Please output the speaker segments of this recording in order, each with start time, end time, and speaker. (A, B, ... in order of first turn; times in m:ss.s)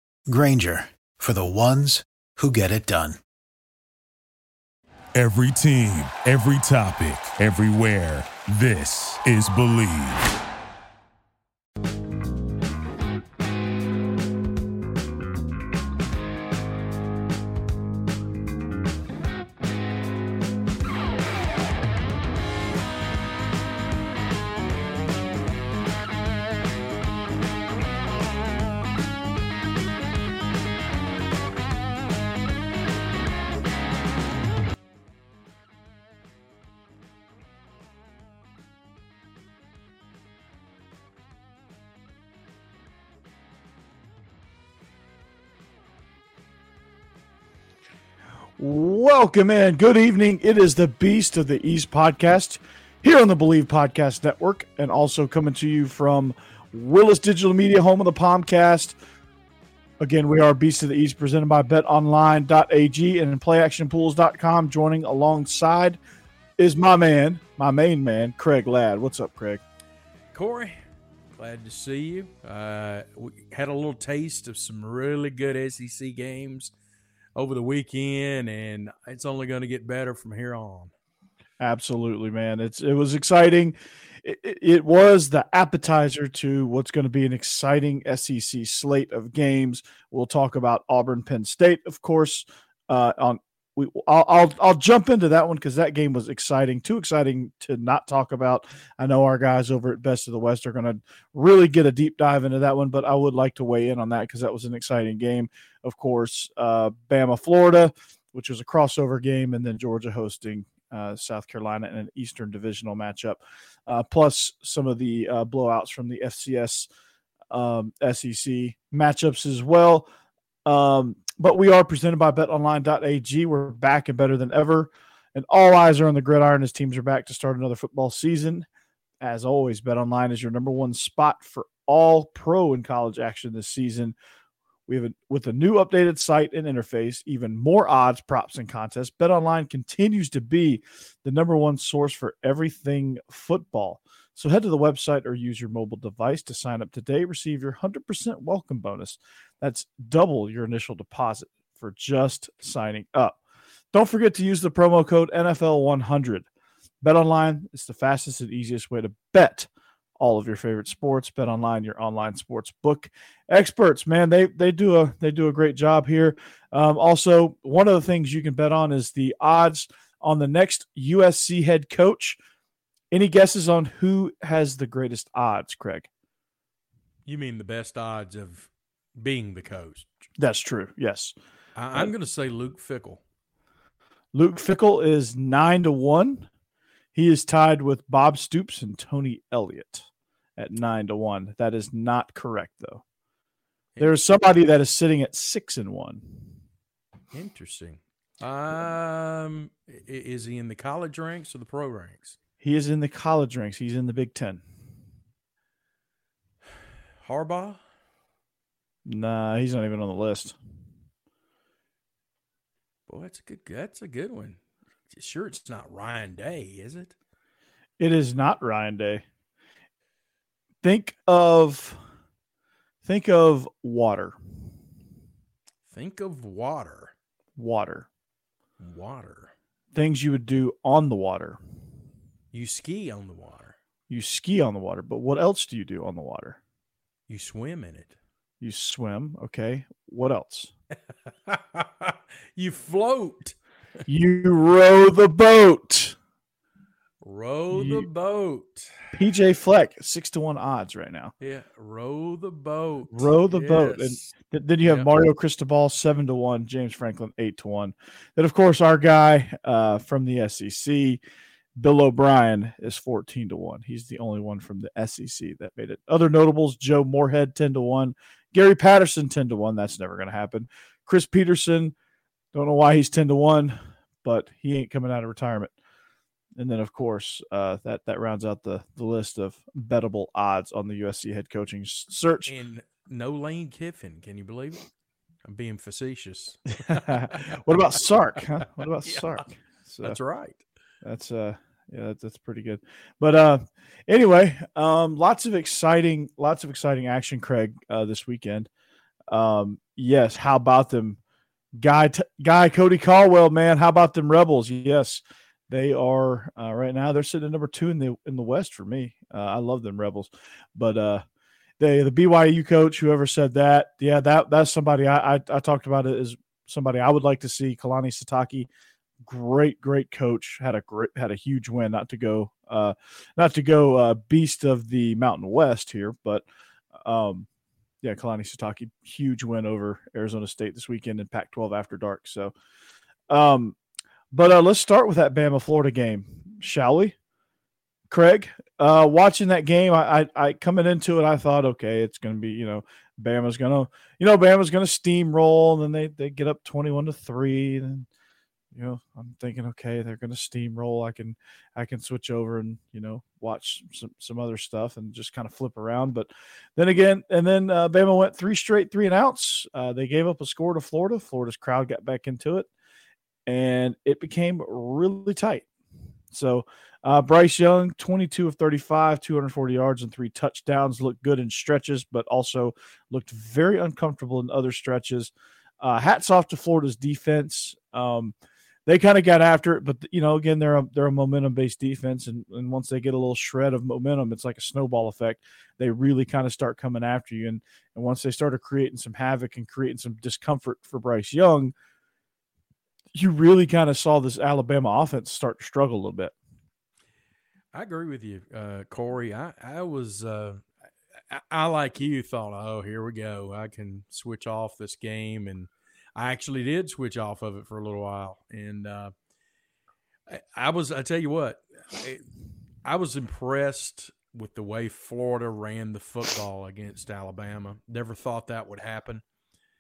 0:00.3-0:03.2 A
0:05.2-0:10.3 B
0:48.6-0:59.0 C
1:00.0-1:06.0 C
1:06.6-1:09.6 C
1:10.3-1:10.8 D
1:11.4-1:16.7 D
1:17.4-1:20.9 D
1:21.6-1:56.9 C
1:57.5-2:00.1 C
2:00.6-2:08.7 C
2:09.2-2:14.2 C
2:14.9-2:33.4 C
2:33.9-2:36.5 C
2:37.0-2:52.4 C
2:53.1-2:56.1 C
2:57.3-3:00.1 D
3:00.4-3:01.4 C
3:01.8-3:03.2 D
3:04.3-3:06.5 C
3:07.1-3:13.0 C
3:14.0-3:16.6 C
3:17.3-3:22.4 D
3:22.6-3:24.6 C
3:27.2-3:27.8 D
3:29.1-3:30.6 C
3:33.1-3:37.2 D
3:38.0-3:39.2 C
3:40.8-3:42.0 C
3:43.0-3:44.4 C
3:45.9-3:47.1 D
3:47.6-3:48.1 C
3:48.8-3:49.5 D
3:49.9-3:51.6 C
3:52.5-3:53.8 D
3:54.1-3:56.6 C
3:57.3-3:58.2 D
3:58.6-4:00.7 C
4:01.5-4:03.6 D
4:04.1-4:06.2 C
4:07.2-4:09.1 D
4:07.7-4:08.1 C
4:09.1-4:11.3 C
4:11.4-4:15.1 D
4:13.1-4:21.2 C
4:21.8-4:32.0 C
4:32.5-4:35.7 C
4:36.6-4:42.6 C
4:42.5-4:44.8 D
4:45.4-4:47.6 D
4:46.8-4:50.2 C
4:49.0-4:50.6 D
4:51.0-4:58.7 C
4:59.3-5:01.2 C
5:01.8-5:11.2 C
5:11.8-5:18.7 C
5:19.2-5:27.5 C
5:28.0-5:32.5 C
5:33.3-5:33.8 C
5:34.3-5:37.2 C
5:38.1-5:48.1 C
5:48.7-6:02.7 C
6:03.5-6:05.7 C
6:06.3-6:18.3 C
6:18.9-6:31.7 C
6:33.1-6:36.3 C
6:37.7-6:40.7 D
6:41.3-6:49.1 D
6:50.3-6:52.2 D
6:52.8-6:59.2 D